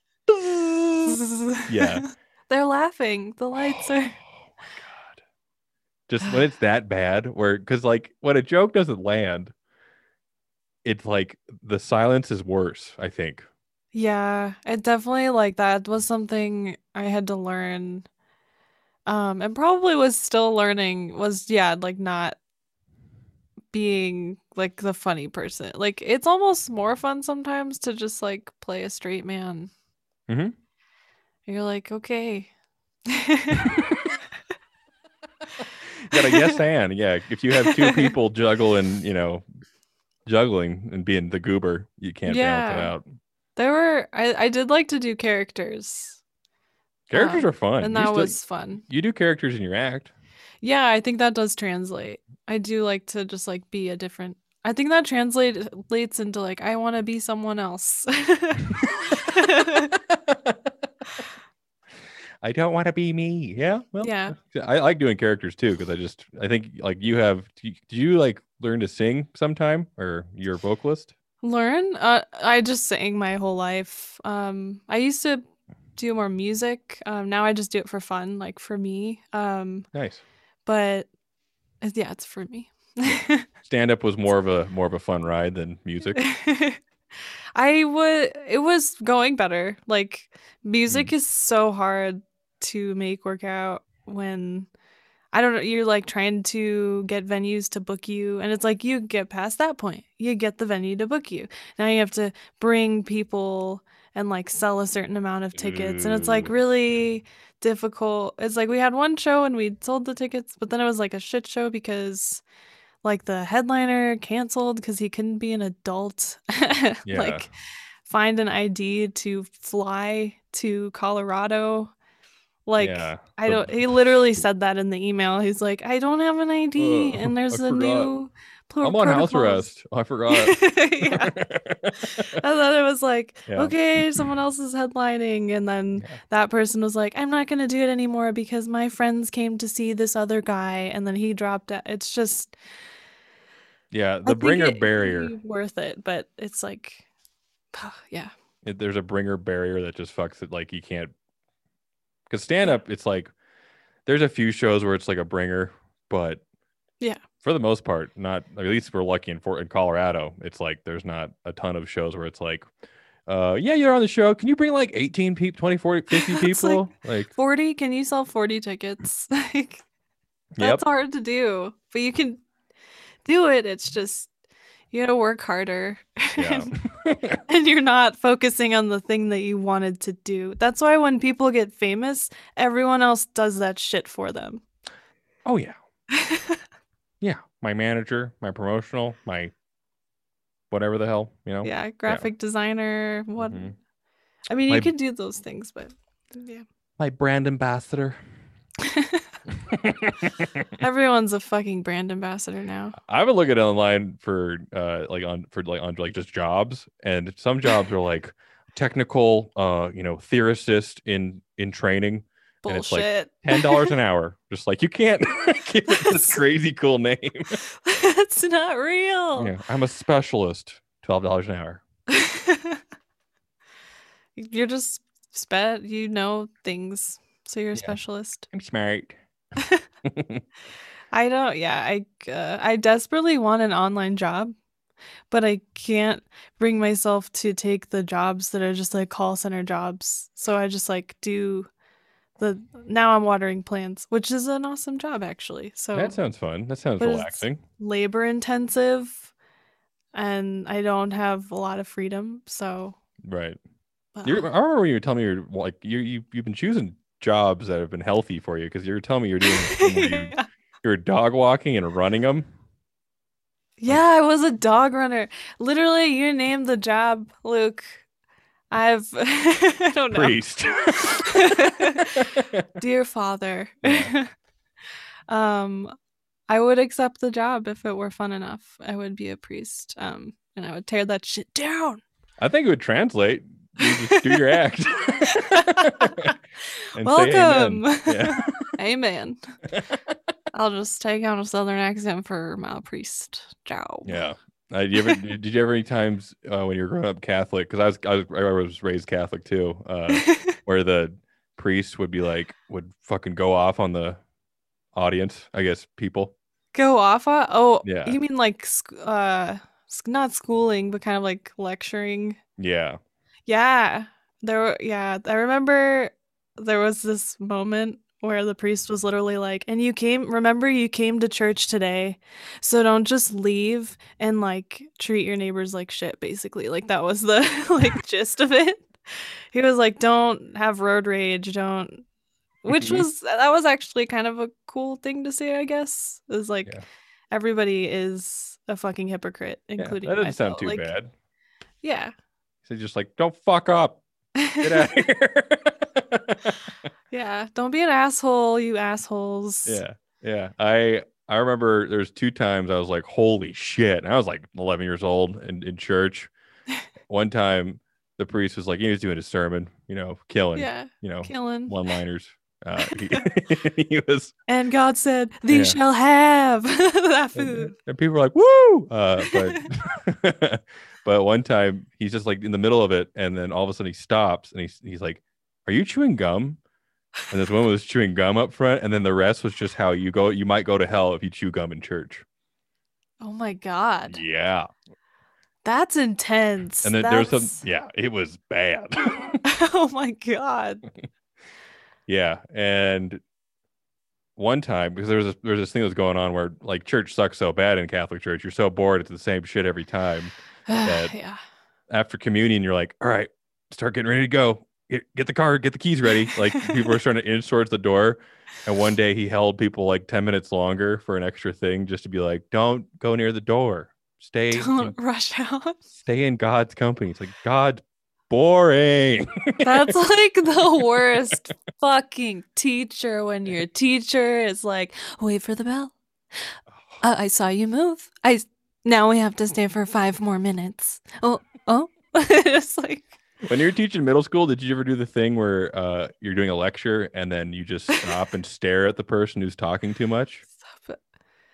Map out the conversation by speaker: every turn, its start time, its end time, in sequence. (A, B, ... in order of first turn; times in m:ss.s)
0:00.3-0:02.0 A
0:01.1-0:04.2 B
0:03.6-0:05.2 A
0:06.1-0:09.5 A
0:10.8-0:13.5 A
0:13.9-0:18.1 B
0:19.1-0:22.4 B
0:23.7-0:29.7 B
0:30.3-0:30.6 A
0:31.4-0:32.5 B
0:33.1-0:34.0 B
0:36.0-0:39.4 A
0:36.1-0:36.6 B
0:37.7-0:38.1 B
0:40.3-0:43.0 A
0:42.3-0:42.9 B
0:43.6-0:46.2 B
0:47.1-0:48.4 A
0:47.1-0:48.8 B
0:48.9-0:50.1 A
0:50.6-0:59.9 B
0:59.9-1:00.7 A
1:02.4-1:11.1 A
1:04.0-1:04.4 B
1:11.4-1:15.4 B
1:16.0-1:19.9 B
1:19.9-1:20.2 A
1:20.6-1:21.1 B
1:21.8-1:23.4 B
1:23.0-1:26.2 A
1:26.1-1:26.8 B
1:27.6-1:34.7 B
1:30.9-1:31.1 A
1:35.3-1:52.4 B
1:45.6-1:46.6 A
1:53.0-1:57.5 B
1:57.0-1:57.5 A
1:58.0-2:01.9 B
2:02.7-2:09.7 B
2:02.8-2:04.0 A
2:06.8-2:08.1 A
2:08.8-2:12.4 A
2:10.3-2:11.3 B
2:12.1-2:22.6 B
2:13.5-2:14.3 A
2:23.9-2:25.3 A
2:24.3-2:27.0 B
2:27.7-2:28.3 B
2:28.6-2:31.1 A
2:32.3-2:33.3 A
2:34.0-2:36.4 A
2:37.4-2:42.6 A
2:43.3-2:47.3 A
2:46.1-2:49.8 B
2:50.6-2:50.8 A
2:50.6-2:52.4 B
2:53.2-2:54.3 B
2:54.9-2:56.7 B
2:56.4-2:57.4 A
2:57.5-3:04.6 B
3:05.4-3:05.8 A
3:06.1-3:06.6 B
3:07.2-3:09.5 A
3:10.7-3:12.3 A
3:11.6-3:13.7 B
3:13.4-3:13.8 A
3:14.5-3:16.6 B
3:17.0-3:18.2 A
3:18.8-3:19.3 B
3:19.7-3:20.7 A
3:20.8-3:23.0 B
3:23.0-3:37.6 A
3:32.6-3:33.9 B
3:36.0-3:36.4 B
3:37.7-3:39.5 B
3:39.4-3:41.8 A
3:42.1-3:42.8 B
3:44.4-3:48.4 B
3:48.5-3:49.2 A
3:49.6-3:49.8 B
3:50.0-3:50.4 A
3:51.1-3:54.5 B
3:55.3-4:01.7 B
4:02.4-4:06.2 B
4:05.9-4:07.6 A
4:07.0-4:09.3 B
4:10.1-4:13.0 B
4:13.2-4:13.6 A
4:14.1-4:14.5 B
4:14.2-4:22.5 A
4:19.4-4:20.4 B
4:23.8-4:28.0 B
4:28.7-4:34.3 B
4:30.1-4:32.7 A
4:33.8-4:34.1 A
4:35.3-4:35.9 B
4:36.5-4:42.0 B
4:42.4-4:46.4 A
4:43.8-4:44.6 B
4:45.2-4:46.3 B
4:47.0-4:48.7 A
4:47.0-4:49.4 B
4:50.5-4:54.2 B
4:54.0-5:04.2 A
5:00.1-5:00.6 B
5:05.0-5:06.3 A
5:06.7-5:12.4 B
5:07.8-5:08.2 A
5:12.6-5:13.0 A
5:13.5-5:32.0 B
5:32.6-5:36.7 B
5:32.7-5:33.0 A
5:37.3-5:40.9 B
5:39.8-5:41.1 A
5:41.8-5:42.1 B
5:42.6-5:44.0 A
5:44.4-5:44.9 B
5:44.6-5:46.7 A
5:47.1-5:49.8 B
5:49.6-5:56.3 A
5:57.1-6:04.3 A
6:00.6-6:01.7 B
6:02.8-6:03.2 B
6:04.5-6:07.7 B
6:05.5-6:05.8 A
6:07.4-6:16.6 A
6:09.2-6:09.6 B
6:17.3-6:22.2 A
6:23.2-6:24.2 B
6:24.1-6:24.7 A
6:25.6-6:27.6 B
6:26.8-6:29.4 A
6:29.4-6:30.8 B
6:32.1-6:33.2 A
6:34.4-6:41.1 A
6:40.7-6:41.4 B
6:41.9-6:55.0 A
6:46.3-6:47.0 B
6:54.5-6:55.8 B
6:56.0-7:00.0 A
6:59.6-7:06.0 B
7:06.7-7:07.0 A
7:07.0-7:13.0 B
7:13.4-7:20.4 A
7:20.6-7:21.0 B